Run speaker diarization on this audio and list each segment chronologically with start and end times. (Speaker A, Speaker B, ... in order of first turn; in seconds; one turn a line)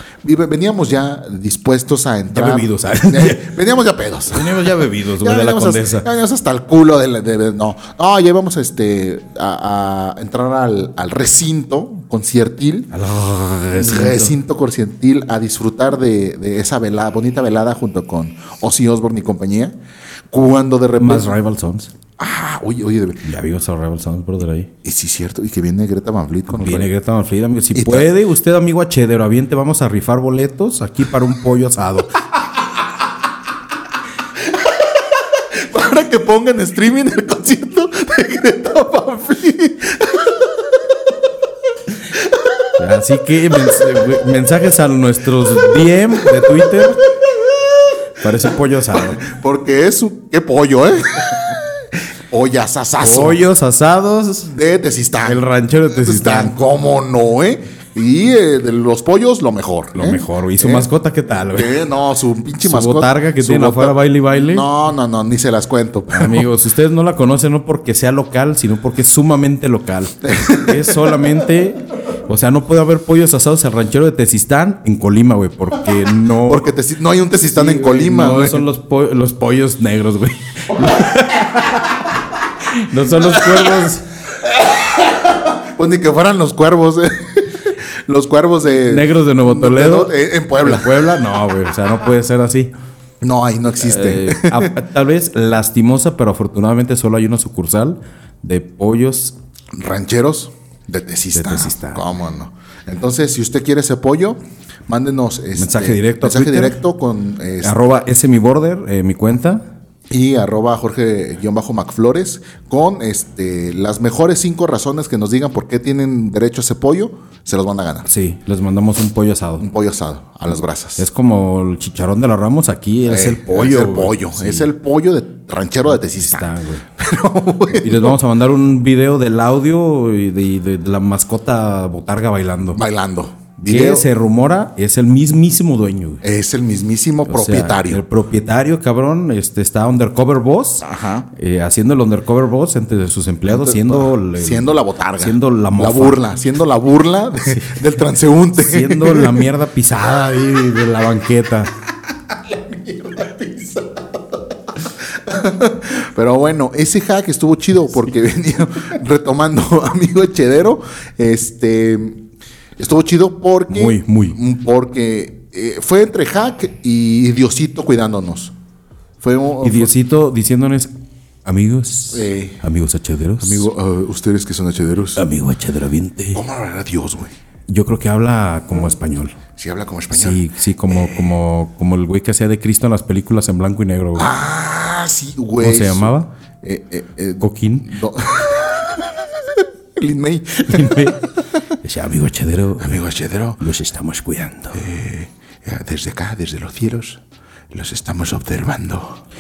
Speaker A: 0.2-12.9
Speaker B: 2.3-3.5
Speaker B: 4.3-6.1
Speaker B: 12.9-14.3
Speaker A: 13.7-19.8
Speaker A: 20.3-21.4
Speaker B: 21.0-21.9
Speaker A: 22.2-23.3
Speaker B: 23.2-24.7
Speaker A: 24.8-26.9
Speaker B: 26.5-32.2
Speaker A: 27.7-28.1
Speaker A: 34.5-40.9
Speaker A: 42.1-42.4
Speaker B: 42.8-47.0
Speaker A: 46.4-46.8
Speaker A: 47.4-47.7
Speaker B: 48.2-49.3
Speaker A: 49.0-53.4
Speaker B: 53.0-54.5
Speaker A: 54.5-60.9
Speaker B: 55.2-56.5
Speaker B: 60.0-61.8
Speaker A: 61.5-66.5
Speaker B: 62.6-64.7
Speaker B: 66.1-76.7
Speaker A: 70.2-71.2
Speaker A: 76.2-78.6
Speaker B: 77.5-84.1
Speaker A: 80.8-81.8
Speaker A: 83.2-91.2
Speaker B: 88.9-92.7
Speaker A: 93.2-94.7
Speaker B: 93.8-99.4
Speaker A: 99.7-107.8
Speaker B: 101.3-102.0
Speaker B: 105.6-106.8
Speaker B: 107.6-109.7
Speaker A: 110.1-118.1
Speaker B: 118.1-119.7
Speaker A: 119.6-121.1
Speaker B: 121.0-124.7
Speaker A: 123.1-128.2
Speaker B: 126.1-126.9
Speaker B: 127.8-132.8
Speaker A: 132.7-134.1
Speaker B: 133.6-136.2
Speaker A: 136.2-138.0
Speaker B: 137.3-146.2
Speaker A: 140.8-141.3
Speaker A: 143.5-149.5
Speaker B: 147.5-147.8
Speaker B: 148.6-151.7
Speaker A: 152.3-162.2
Speaker A: 162.8-168.5
Speaker B: 163.7-164.4
Speaker A: 169.2-169.9
Speaker B: 169.6-170.9
Speaker B: 171.4-173.7
Speaker A: 172.1-172.6
Speaker A: 173.4-175.2
Speaker B: 175.2-176.4
Speaker A: 176.3-177.3
Speaker B: 177.7-179.4
Speaker A: 179.6-181.4
Speaker B: 180.1-184.3
Speaker A: 184.2-191.2
Speaker B: 185.6-186.3
Speaker B: 187.4-187.9
Speaker B: 190.6-193.1
Speaker A: 192.8-193.6
Speaker B: 193.6-194.8
Speaker A: 194.7-199.2